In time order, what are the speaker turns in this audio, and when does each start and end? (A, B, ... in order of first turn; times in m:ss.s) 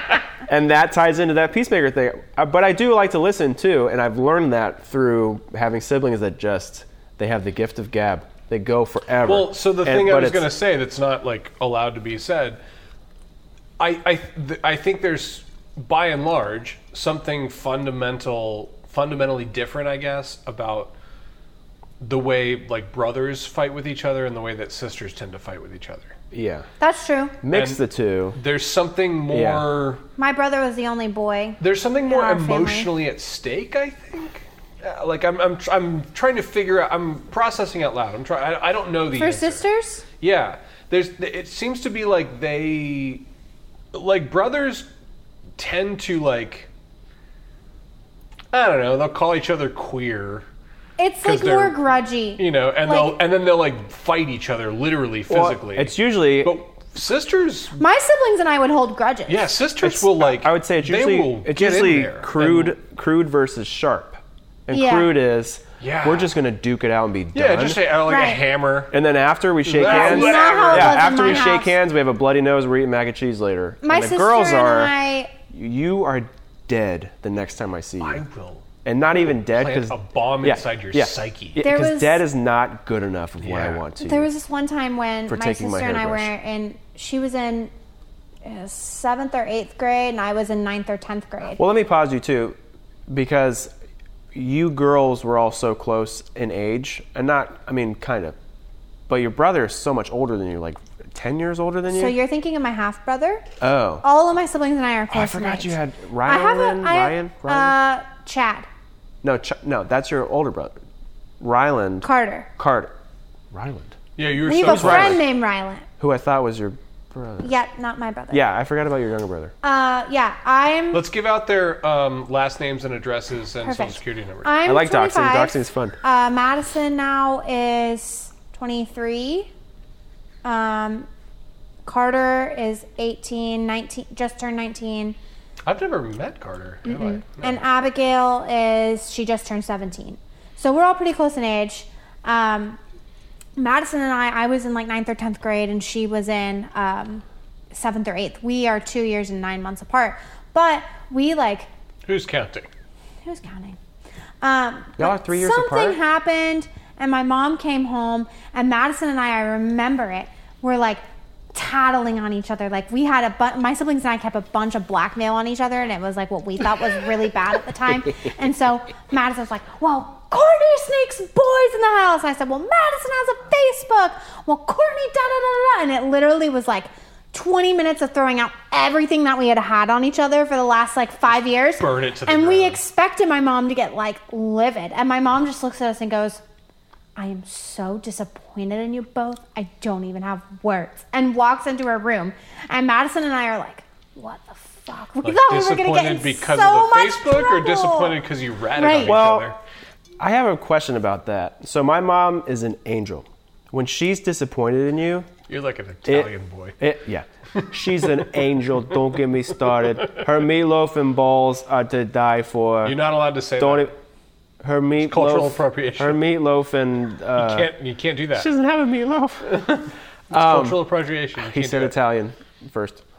0:00.4-0:10.5 A
0:09.2-0:12.6 B
0:13.8-0:20.9 B
0:22.0-0:26.2 B
0:26.3-0:26.7 A
0:26.8-0:27.4 C
0:27.4-0:28.4 A
0:27.5-0:30.0 B
0:29.3-0:29.6 A
0:30.2-0:32.9 C
0:31.6-0:39.6 B
0:39.1-0:40.0 C
0:40.2-0:43.2 B
0:43.9-0:44.9 B
0:45.6-0:46.7 B
0:48.5-0:50.4 B
0:51.0-0:53.2 C
0:51.2-0:51.8 B
0:52.4-0:57.8 B
0:55.3-0:56.6 A
0:57.8-0:59.5 C
0:59.3-1:02.8 B
0:59.8-1:07.8 A
1:04.7-1:05.1 C
1:05.8-1:06.4 B
1:07.3-1:08.9 B
1:08.1-1:08.4 C
1:08.9-1:14.9 A
1:09.6-1:11.6 B
1:09.8-1:11.8 C
1:13.8-1:15.3 C
1:15.5-1:18.2 A
1:18.0-1:21.6 B
1:18.8-1:24.3 A
1:21.6-1:22.2 C
1:23.4-1:23.8 B
1:24.0-1:27.7 C
1:25.3-1:26.3 A
1:28.4-1:31.6 C
1:31.6-1:32.6 A
1:33.1-1:33.7 A
1:34.3-1:38.4 A
1:39.1-1:42.2 A
1:41.9-1:43.4 C
1:43.6-1:44.0 A
1:44.0-1:48.7 C
1:45.1-1:47.7 A
1:49.2-1:50.7 A
1:51.4-1:52.9 A
1:52.0-1:52.5 C
1:53.5-1:54.0 A
1:54.2-1:55.2 B
1:54.5-1:55.9 C
1:54.6-1:55.2 A
1:56.0-1:57.5 A
1:57.4-1:58.4 C
1:58.3-1:59.5 A
1:59.6-2:01.0 C
2:00.9-2:04.5 B
2:03.6-2:09.5 C
2:04.6-2:06.0 A
2:10.4-2:11.1 C
2:11.8-2:15.2 C
2:15.6-2:17.6 B
2:16.8-2:22.8 C
2:23.6-2:31.7 C
2:32.0-2:32.7 B
2:33.2-2:33.8 C
2:34.4-2:41.0 C
2:35.0-2:36.0 A
2:41.5-3:06.4 C
3:01.8-3:02.8 B
3:07.2-3:18.2 C
3:15.2-3:19.6 B
3:18.8-3:19.2 C
3:19.0-3:19.5 A
3:20.2-3:25.3 A
3:25.5-3:26.8 B
3:26.0-3:33.0 A
3:27.6-3:28.3 B
3:32.8-3:33.9 B
3:33.6-3:33.9 A
3:34.6-3:37.7 A
3:35.0-3:36.2 B
3:37.4-3:38.5 B
3:38.3-3:39.5 A
3:39.4-3:42.0 B
3:40.3-3:40.8 A
3:41.4-3:43.0 A